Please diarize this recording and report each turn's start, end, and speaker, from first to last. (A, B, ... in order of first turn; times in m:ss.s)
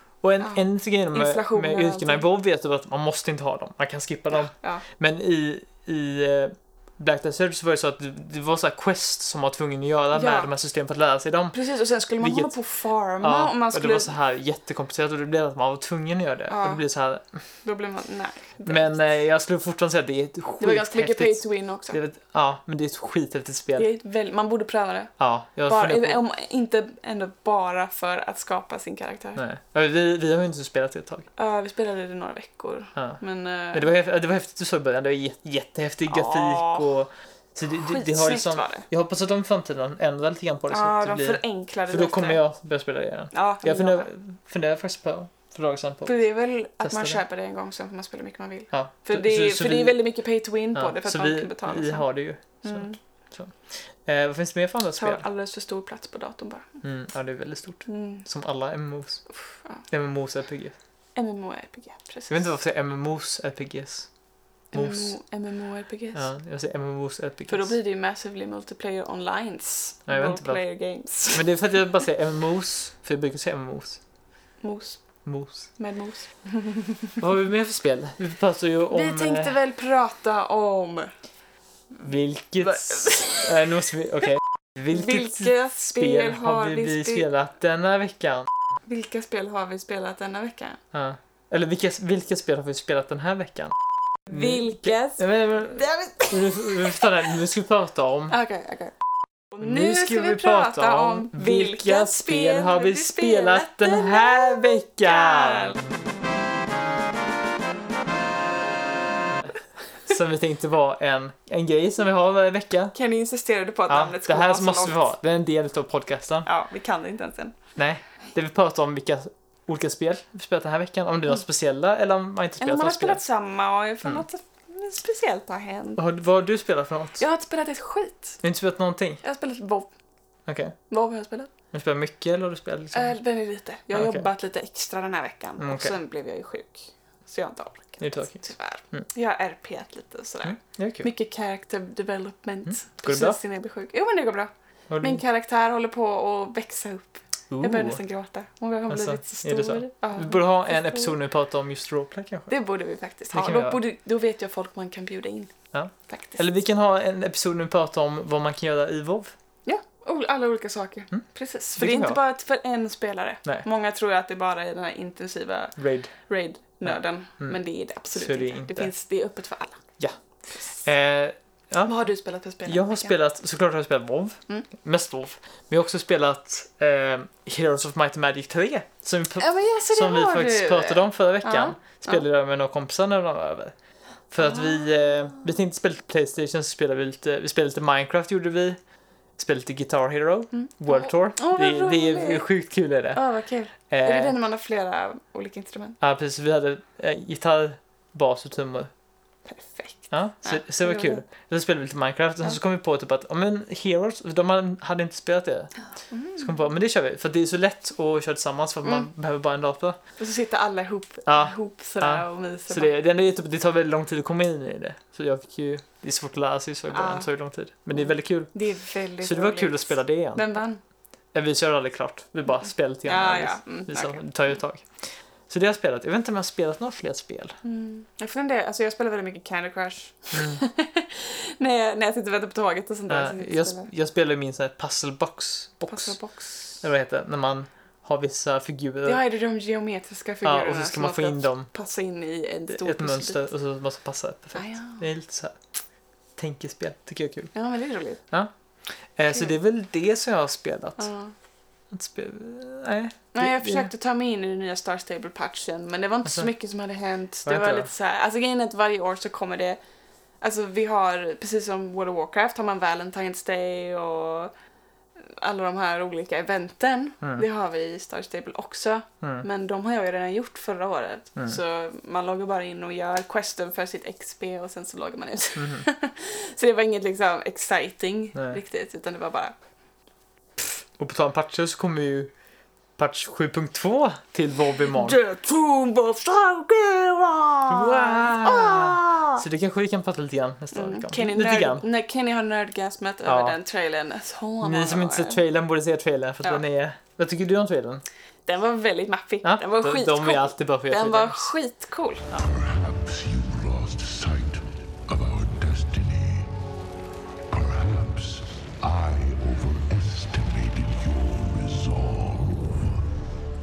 0:00.2-0:11.6 A
0:00.4-0:02.2 B
0:04.4-0:04.8 B
0:10.1-0:10.5 B
0:11.5-0:14.1 B
0:12.2-0:12.5 A
0:13.2-0:17.4 A
0:16.5-0:16.8 B
0:17.6-0:19.0 B
0:18.6-0:23.9 A
0:20.6-0:22.0 B
0:23.8-0:25.1 B
0:25.2-0:26.2 A
0:25.7-0:29.4 B
0:29.4-0:31.3 A
0:31.4-0:33.9 B
0:33.0-0:33.2 A
0:33.7-0:46.2 A
0:36.1-0:36.9 B
0:37.8-0:38.9 B
0:40.7-0:42.4 B
0:43.3-0:44.1 B
0:46.0-0:52.1 B
0:46.8-0:47.2 A
0:48.7-0:50.0 A
0:50.8-0:55.2 A
0:52.6-0:53.0 B
0:55.0-0:56.8 B
0:56.8-0:59.2 A
0:57.9-0:58.3 B
0:59.4-0:59.8 B
0:59.9-1:00.8 A
1:01.2-1:02.4 B
1:02.3-1:04.1 A
1:04.7-1:06.3 B
1:04.7-1:05.2 A
1:06.2-1:07.7 A
1:07.5-1:11.5 B
1:10.1-1:10.6 A
1:11.3-1:14.0 A
1:14.6-1:15.0 B
1:15.2-1:15.7 A
1:15.8-1:17.2 B
1:17.2-1:19.6 A
1:18.9-1:21.1 B
1:22.0-1:28.5 A
1:22.6-1:23.7 B
1:24.9-1:27.3 B
1:28.9-1:30.8 B
1:30.9-1:38.4 A
1:34.3-1:37.3 B
1:38.3-1:39.0 B
1:39.5-1:45.8 B
1:39.6-1:45.8 A
1:50.0-1:53.0 A
1:52.9-1:55.1 B
1:53.9-1:56.5 A
1:56.4-1:57.6 B
1:57.8-2:03.2 A
2:02.6-2:06.0 B
2:06.0-2:07.2 A
2:07.2-2:08.4 B
2:08.4-2:09.2 A
2:09.2-2:09.9 B
2:10.5-2:10.8 A
2:10.9-2:11.5 B
2:11.7-2:13.2 A
2:12.9-2:24.5 B
2:13.9-2:14.3 A
2:15.6-2:16.0 A
2:18.0-2:19.1 A
2:20.4-2:21.1 A
2:22.7-2:23.4 A
2:24.9-2:25.2 A
2:25.0-2:31.2 B
2:27.5-2:28.0 A
2:28.9-2:32.5 A
2:32.5-2:35.5 B
2:33.3-2:33.8 A
2:35.7-2:39.3 A
2:36.1-2:36.4 B
2:39.7-2:49.8 B
2:41.8-2:42.2 A
2:45.8-2:46.1 A
2:46.8-2:47.6 A
2:48.1-2:48.9 A
2:50.8-2:52.0 A
2:51.8-2:53.2 B
2:52.7-3:03.7 A
2:59.4-3:02.2 B
3:04.3-3:08.8 A
3:04.4-3:05.4 B
3:09.4-3:13.2 A
3:10.5-3:12.5 B
3:13.1-3:16.0 B
3:13.9-3:14.4 A
3:16.0-3:18.9 A
3:19.5-3:21.2 B
3:20.1-3:25.7 A
3:26.1-3:26.6 B
3:26.4-3:30.0 A
3:30.2-3:32.9 B
3:31.3-3:38.6 A
3:36.9-3:37.3 B
3:38.0-3:40.8 B
3:39.2-3:40.4 A
3:41.3-3:47.6 A
3:43.0-3:44.3 B
3:47.6-3:53.9 B
3:50.3-3:50.6 A
3:53.1-3:56.2 A
3:55.9-3:56.8 B
3:56.8-3:59.2 A
3:59.0-4:03.4 B
4:00.4-4:01.7 A
4:02.7-4:05.6 A
4:04.6-4:05.0 B
4:06.4-4:07.5 A
4:07.5-4:08.2 B
4:09.2-4:11.1 A
4:11.0-4:11.3 B
4:11.9-4:13.9 A
4:13.3-4:19.8 B
4:17.5-4:17.9 A
4:20.4-4:24.5 B
4:25.3-4:39.6 B
4:35.6-4:35.9 A
4:41.0-4:42.3 A
4:43.0-4:45.2 A
4:44.9-4:49.4 B
4:47.7-4:51.8 A
4:50.7-4:55.4 B
4:53.3-4:53.6 A
4:54.6-4:58.0 A
4:58.5-5:02.2 B
4:59.4-5:01.5 A
5:02.3-5:06.5 C
5:07.5-5:13.0 C